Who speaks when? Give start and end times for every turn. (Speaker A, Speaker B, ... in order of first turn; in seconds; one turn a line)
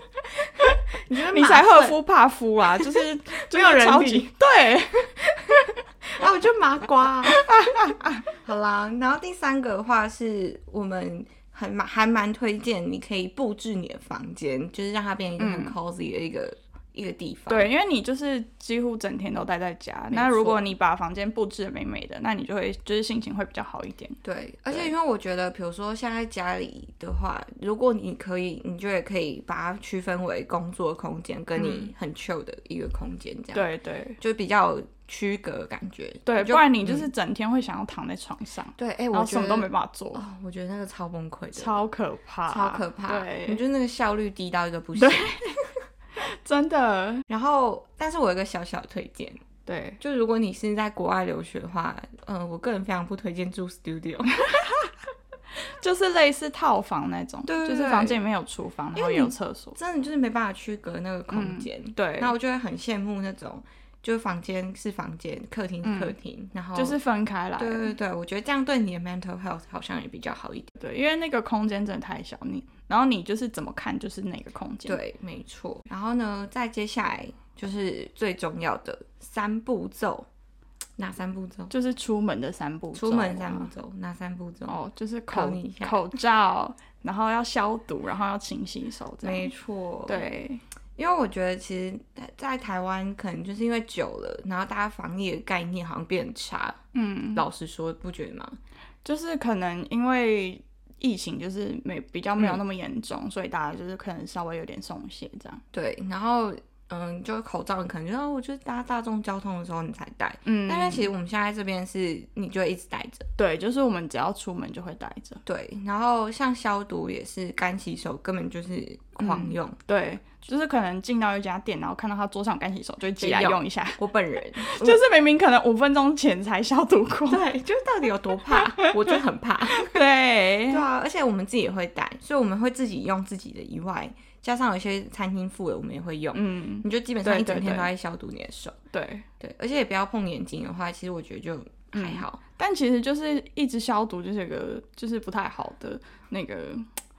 Speaker A: 0.2-2.0
Speaker B: 1.3-5.1
Speaker A: 2.8-4.3
Speaker A: 5.0-7.5
Speaker B: 7.3-8.2
Speaker A: 8.3-17.7
Speaker B: 15.4-15.7
Speaker B: 17.5-24.2
Speaker A: 20.1-20.6
Speaker A: 24.2-37.1
Speaker B: 31.6-31.9
Speaker B: 33.5-34.2
Speaker B: 36.2-40.2
Speaker A: 38.8-41.8
Speaker B: 41.5-43.6
Speaker A: 42.5-45.8
Speaker B: 45.0-45.6
Speaker B: 46.1-47.2
Speaker A: 47.3-49.4
Speaker B: 49.6-50.0
Speaker A: 50.0-54.4
Speaker B: 54.4-54.9
Speaker B: 55.6-59.8
Speaker A: 57.5-58.2
Speaker A: 58.9-67.0
Speaker B: 61.3-62.3
Speaker B: 65.8-66.1
Speaker B: 66.7-67.9
Speaker A: 67.6-70.7
Speaker B: 70.8-75.0
Speaker A: 74.8-80.3
Speaker A: 81.0-81.7
Speaker B: 81.7-83.7
Speaker A: 82.9-84.8
Speaker B: 84.7-89.5
Speaker A: 85.3-86.0
Speaker A: 89.2-90.2
Speaker B: 90.1-90.6
Speaker A: 91.0-96.8
Speaker B: 96.9-97.4
Speaker A: 97.3-98.6
Speaker B: 99.0-105.6
Speaker A: 105.7-113.3
Speaker B: 110.5-111.1
Speaker B: 113.4-115.4
Speaker A: 115.5-119.8
Speaker B: 119.2-124.0
Speaker A: 123.2-125.0
Speaker B: 124.5-127.4
Speaker A: 127.3-130.0
Speaker B: 128.5-129.2
Speaker B: 129.7-130.8
Speaker A: 130.7-138.8
Speaker B: 136.3-137.9
Speaker B: 138.9-139.2
Speaker A: 139.4-142.4
Speaker B: 141.9-146.8